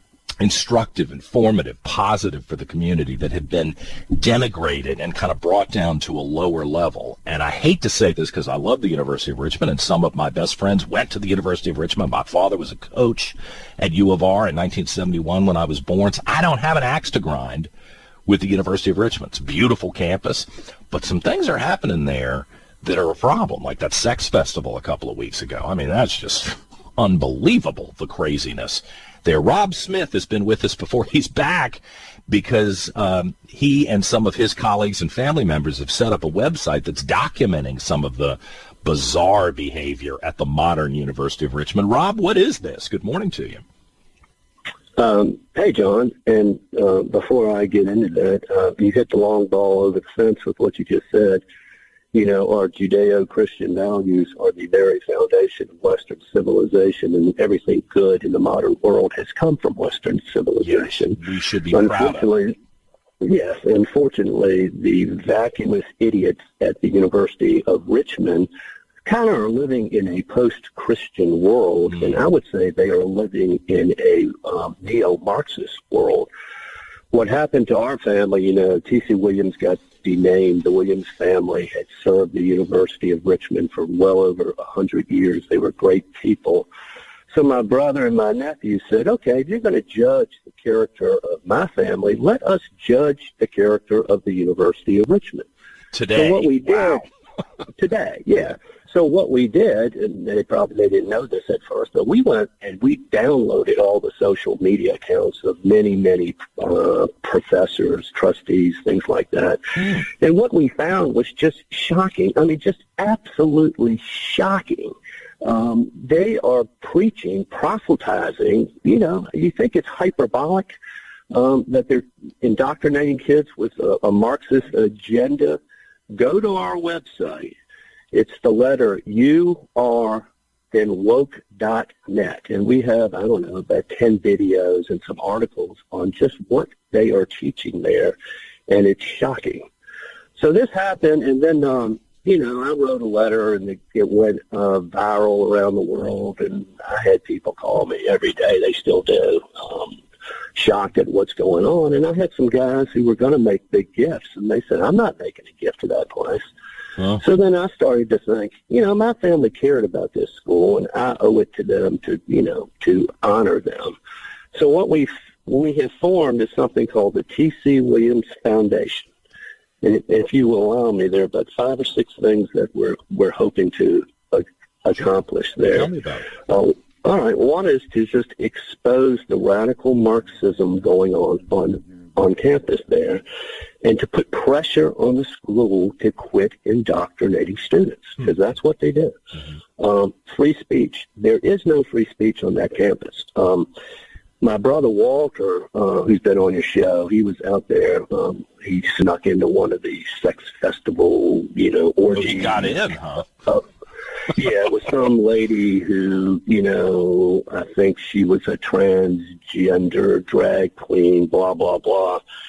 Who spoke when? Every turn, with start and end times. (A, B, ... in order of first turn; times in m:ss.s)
0:00.4-0:17.7 A
0:18.3-0:43.6 A
0:45.0-0:51.4 B
0:52.1-1:02.6 B
1:00.6-1:02.3 A
1:03.2-1:08.5 B
1:09.0-1:16.3 B
1:17.1-1:26.7 B
1:27.3-1:35.5 B
1:35.9-1:37.1 A
1:36.1-1:37.0 B
1:37.8-2:00.8 B
2:01.3-2:05.6 B
2:06.1-2:07.6 B
2:08.1-2:18.2 B
2:18.7-2:19.6 B
2:20.4-2:30.0 B
2:30.5-2:36.4 B
2:37.1-2:43.9 B
2:44.5-2:49.1 B
2:49.8-2:55.9 B
2:55.6-2:56.3 A
2:56.5-3:03.2 B
3:03.8-3:09.1 B
3:09.8-3:13.7 B
3:14.4-3:22.8 B
3:22.1-3:23.3 A
3:24.3-3:32.2 B